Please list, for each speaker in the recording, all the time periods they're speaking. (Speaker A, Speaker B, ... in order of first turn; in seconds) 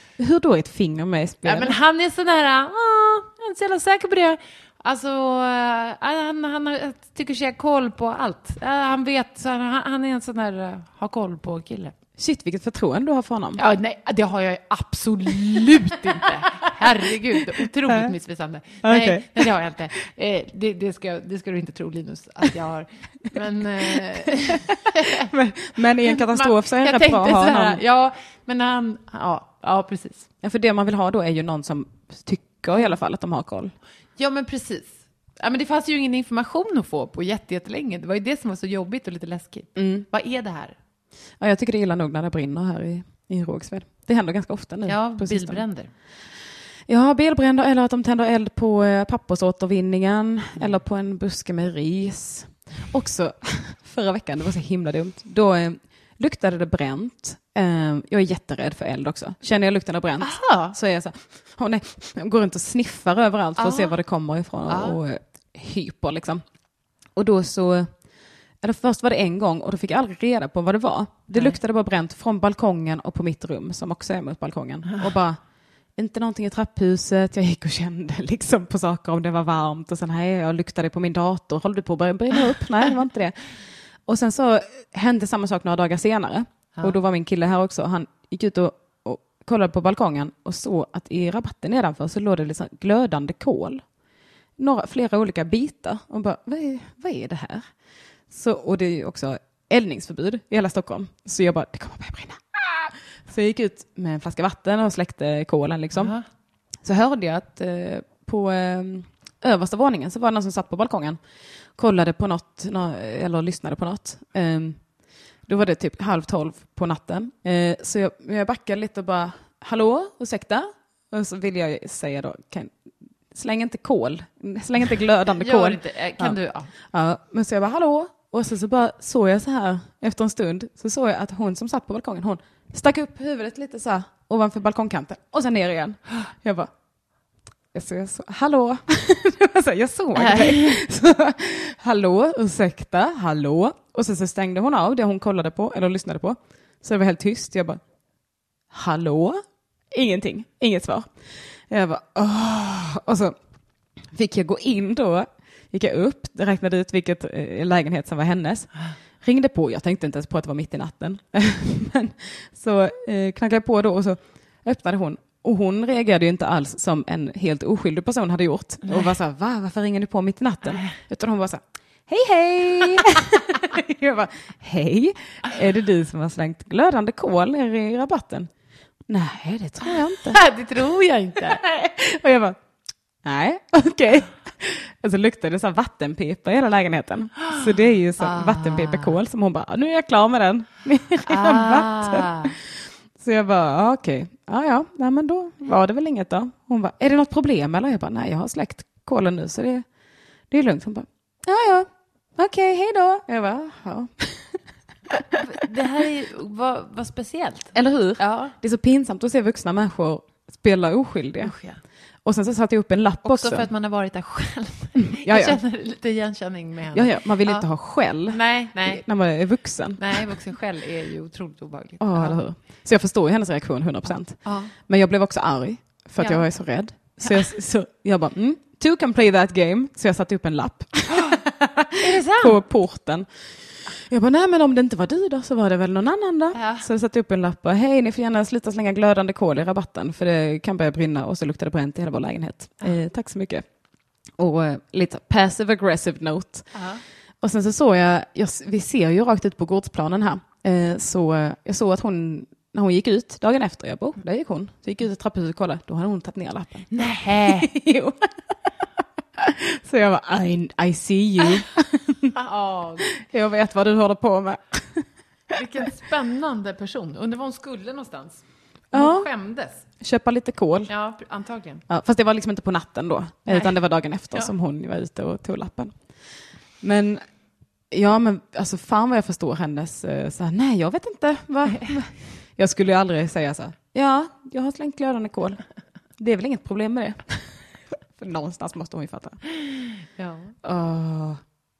Speaker A: 0.2-1.8, 12.2-13.6, 17.9-18.1, 18.8-19.5, 24.4-27.8, 30.4-33.7, 39.8-40.1, 41.4-45.6, 46.9-66.4, 67.2-68.0, 68.6-75.4, 76.0-83.3, 84.1-93.8, 94.6-97.7, 98.3-106.2, 106.8-111.2, 111.8-114.8, 115.5-122.8, 123.3-126.4, 126.9-136.7, 137.7-147.8, 148.7-153.4, 154.1-158.7, 159.2-178.5, 179.1-180.4, 181.4-182.6, 183.2-199.8, 200.5-205.4, 207.7-211.6, 212.2-213.7, 215.2-215.6, 216.9-220.2, 222.0-243.7, 244.4-246.7, 247.4-258.6, 259.4-262.3, 263.1-265.6, 268.9-269.3, 270.0-270.9, 271.9-276.0, 276.8-277.2, 277.9-285.6, 286.2-289.4, 290.6-291.4
Speaker B: 1.4-11.9, 13.6-25.3, 26.0-30.3, 34.2-40.8, 44.9-45.9, 60.2-60.8, 63.6-64.0, 64.7-65.0, 71.3-71.6, 105.9-106.2, 125.4-126.7, 140.2-140.8, 168.8-169.1, 180.1-181.6, 188.2-189.2, 191.3-192.6, 205.3-208.5, 211.4-211.8, 213.2-217.7, 218.3-219.0, 220.0-222.4, 224.4-224.7, 226.2-226.4, 231.1-231.4, 232.0-232.6, 236.5-236.9, 246.7-247.0, 256.9-257.7, 262.3-263.2, 265.5-269.8, 270.9-271.8, 273.5-273.8, 290.2-290.5